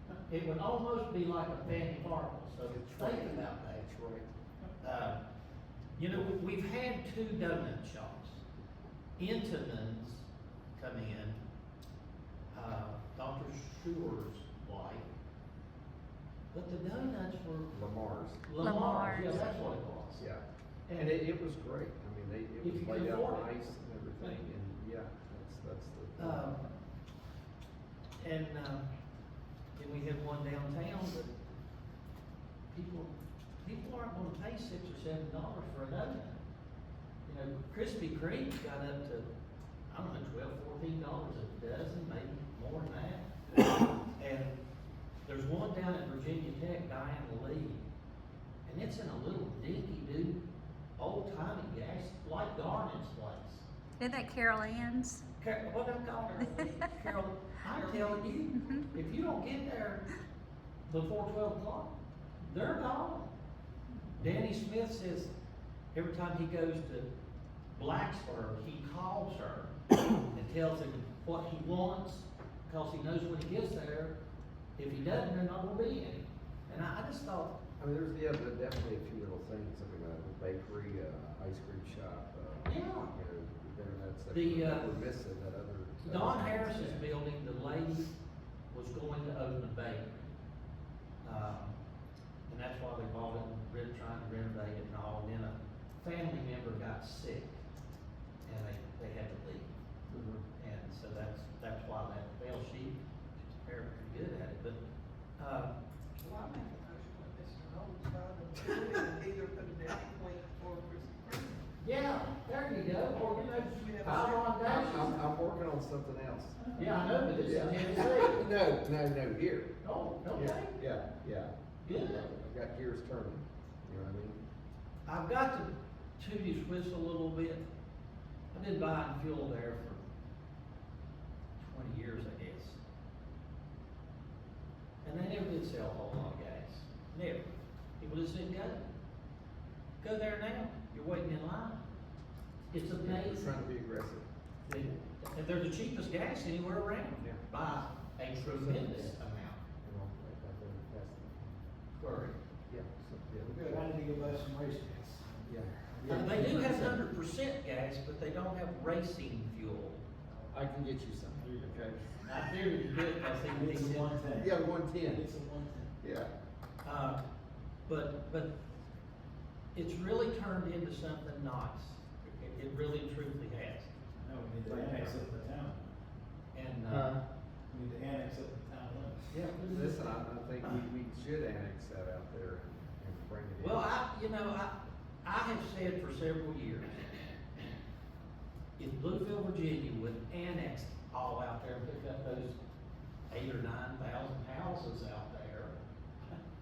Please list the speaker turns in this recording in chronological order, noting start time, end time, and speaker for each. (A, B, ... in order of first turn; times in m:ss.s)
0:00.3-0:03.8 A
0:02.6-0:04.3 B
0:04.8-0:05.2 A
0:06.0-0:08.4 A
0:09.2-0:11.4 A
0:12.5-0:15.0 A
0:16.5-0:17.7 A
0:17.7-0:18.5 B
0:18.4-0:20.2 A
0:18.6-0:19.4 C
0:20.2-0:26.4 B
0:20.9-0:21.1 A
0:22.6-0:23.6 A
0:26.2-0:26.7 A
0:28.2-0:28.9 A
0:29.8-0:31.3 A
0:32.7-0:36.4 A
0:37.2-0:39.2 A
0:39.9-0:43.2 A
0:44.2-0:44.6 A
0:45.2-0:47.8 A
0:48.6-0:50.4 A
0:51.0-0:53.6 A
0:54.0-0:55.2 C
0:55.4-1:00.0 A
0:57.7-0:58.8 D
1:00.9-1:03.3 A
1:04.2-1:05.3 A
1:05.9-1:07.1 A
1:07.7-1:09.7 A
1:10.2-1:14.1 A
1:14.8-1:17.5 A
1:17.8-1:27.0 B
1:22.6-1:23.1 A
1:24.3-1:24.9 A
1:26.0-1:28.1 A
1:28.7-1:30.3 A
1:31.2-1:31.8 A
1:32.5-1:37.6 A
1:38.4-1:39.7 A
1:40.1-1:40.4 B
1:40.6-1:44.8 A
1:45.4-1:45.8 A
1:46.2-1:51.6 D
1:51.8-1:55.2 A
1:53.5-1:55.1 D
1:54.0-1:56.6 B
1:56.7-1:58.4 A
1:56.8-1:57.0 E
1:57.4-1:59.7 B
1:59.8-2:00.7 A
2:00.3-2:04.4 B
2:01.8-2:02.3 A
2:05.0-2:07.6 A
2:08.5-2:10.0 A
2:11.6-2:12.8 A
2:15.0-2:18.8 A
2:20.0-2:21.8 A
2:22.7-2:23.6 A
2:22.9-2:24.3 B
2:24.6-2:29.6 A
2:27.2-2:27.4 B
2:28.4-2:29.2 B
2:29.8-2:31.6 B
2:31.9-2:32.4 A
2:32.7-2:33.8 B
2:33.6-2:36.9 E
2:35.4-2:37.0 B
2:36.1-2:40.0 A
2:40.5-2:42.0 B
2:41.4-2:41.9 E
2:42.2-2:44.2 A
2:43.4-2:45.9 E
2:44.3-2:45.2 B
2:46.0-2:46.3 B
2:46.8-2:47.2 A
2:47.9-2:48.5 A
2:49.7-2:53.9 A
2:54.2-2:55.8 E
2:54.7-2:55.1 B
2:56.5-2:57.1 A
2:56.9-2:57.2 B
2:57.7-2:59.4 E
2:59.3-3:00.7 A
2:59.6-3:03.9 B
3:03.6-3:07.0 A
3:08.8-3:12.6 A
3:13.3-3:15.7 A